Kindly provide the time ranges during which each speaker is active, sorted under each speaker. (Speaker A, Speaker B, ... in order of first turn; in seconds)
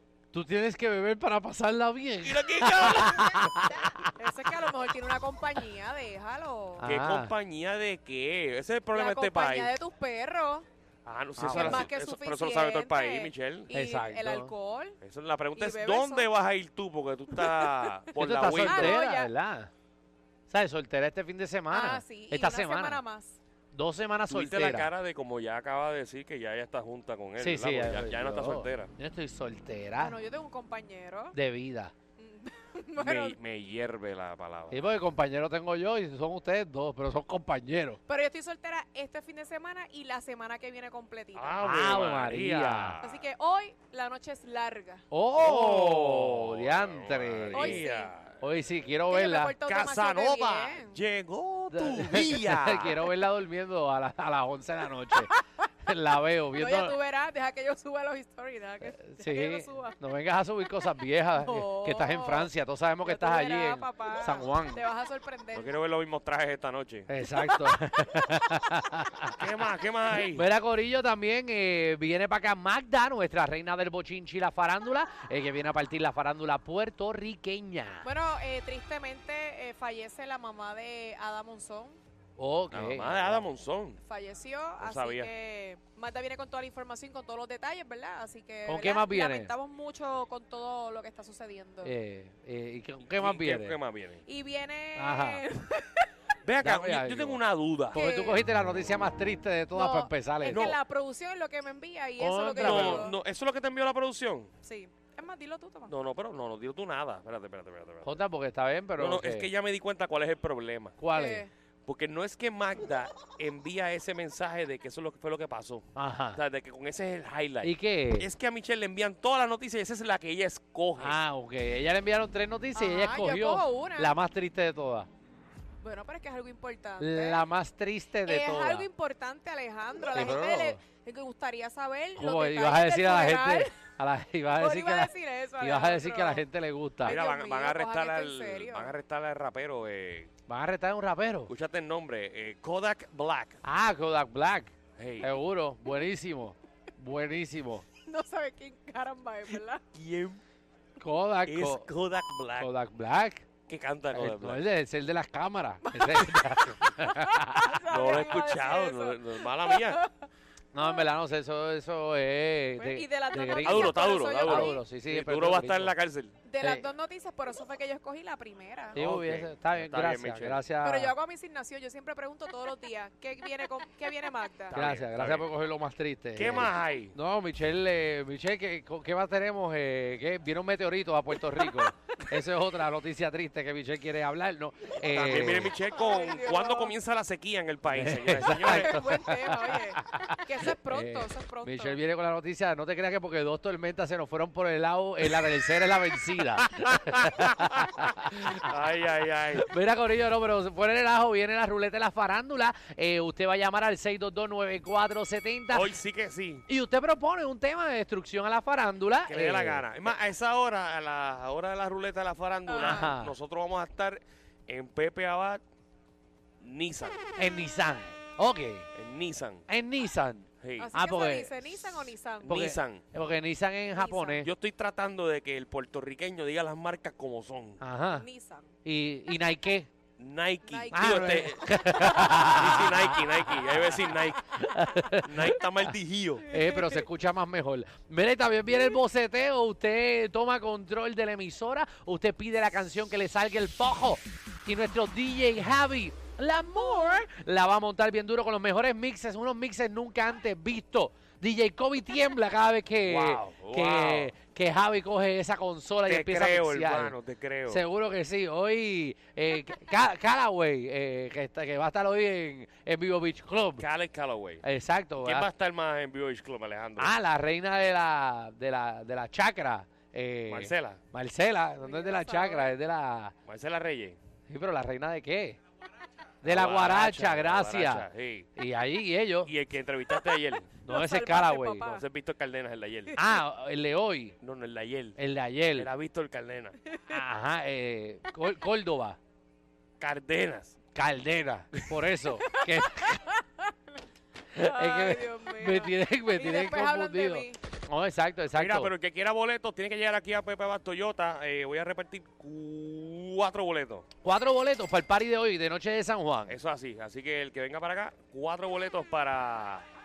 Speaker A: 0.3-4.1, 6.8-7.3, 11.4-11.9, 13.7-14.5, 18.2-19.7, 20.5-23.0, 23.7-24.9, 27.4-30.2, 31.3-31.9, 34.7-38.0, 41.6-43.0, 45.1-47.9, 48.4-49.5, 51.7-55.3, 55.9-57.0, 58.8-64.8, 67.1-69.4, 70.3-78.1, 82.4-83.4, 88.7-89.5, 91.8-93.8, 95.0-95.4, 96.6-97.4, 97.9-100.7, 102.2-103.1, 108.0-109.5, 111.0-111.5, 116.0-116.4, 117.6-118.3, 121.0-125.1, 127.0-128.9, 130.1-130.8, 132.2-137.2, 140.5-141.5, 143.6-147.9, 151.0-151.9, 152.6-153.4, 154.1-157.6, 160.7-165.9, 168.9-171.1, 174.7-185.8, 187.9-198.3, 199.6-205.9, 206.7-209.9, 212.8-213.3, 217.4-218.9, 219.7-221.6, 222.5-224.5, 227.8-228.3, 228.8-229.9, 230.9-233.9, 234.4-235.6, 236.5-257.2, 257.7-263.9, 264.6-265.5, 267.0-273.3, 274.5-275.6, 276.4-279.5, 280.8-281.9, 283.2-284.4, 285.2-285.9, 287.1-289.2, 290.9-293.2, 294.5-298.9, 304.2-306.6
Speaker B: 2.2-3.5, 6.8-9.7, 11.1-13.7, 15.0-19.0, 24.3-28.9, 33.0-34.8, 41.4-43.2, 45.4-48.4, 49.6-53.0, 65.5-67.1, 69.4-70.5, 82.7-84.0, 84.8-85.3, 93.1-94.2, 96.4-98.0, 100.5-100.8, 102.6-104.5, 105.9-108.2, 109.0-111.0, 111.9-121.2, 137.1-140.3, 141.5-143.6, 145.0-145.4, 149.9-150.4, 151.4-152.7, 153.7-154.6, 157.9-160.0, 163.6-166.3, 168.9-170.6, 174.7-175.5, 176.3-177.2, 185.1-189.0, 196.6-199.7, 205.7-206.7, 209.3-215.6, 216.6-217.2, 218.9-219.7, 220.6-220.9, 222.4-223.0, 224.4-227.8, 230.2-234.4, 235.2-236.5, 253.0-254.3, 256.1-257.9, 263.8-264.6, 265.2-267.1, 270.5-271.0, 273.5-274.2, 276.4-278.5, 279.4-280.8, 281.8-283.1, 284.4-285.2, 285.7-286.8, 290.0-290.8, 298.5-304.1, 306.5-309.9
Speaker C: 4.1-6.9, 8.9-10.7, 11.5-15.0, 15.6-16.3, 17.3-17.9, 18.6-19.3, 21.7-23.4, 30.0-31.4, 32.2-33.4, 38.1-41.6, 43.0-45.0, 47.5-48.1, 49.1-51.0, 55.2-55.5, 56.5-60.0, 61.3-62.5, 63.0-65.7, 67.3-68.5, 78.0-82.0, 84.0-91.9, 94.3-96.1, 97.9-98.5, 99.7-103.2, 104.6-105.9, 111.1-111.5, 122.8-124.2, 125.8-127.4, 128.3-133.8, 134.5-136.4, 137.0-139.0, 148.1-149.8, 155.8-160.3, 162.8-164.8, 166.5-169.0, 170.8-174.8, 181.6-181.9, 185.8-186.9, 188.6-192.0, 212.7-213.1, 220.8-222.6, 224.0-224.4, 228.2-228.7, 230.7-232.4, 236.5-237.0, 271.8-272.7, 280.9-282.0, 283.1-283.4, 286.9-287.2, 292.5-293.9, 294.6-297.6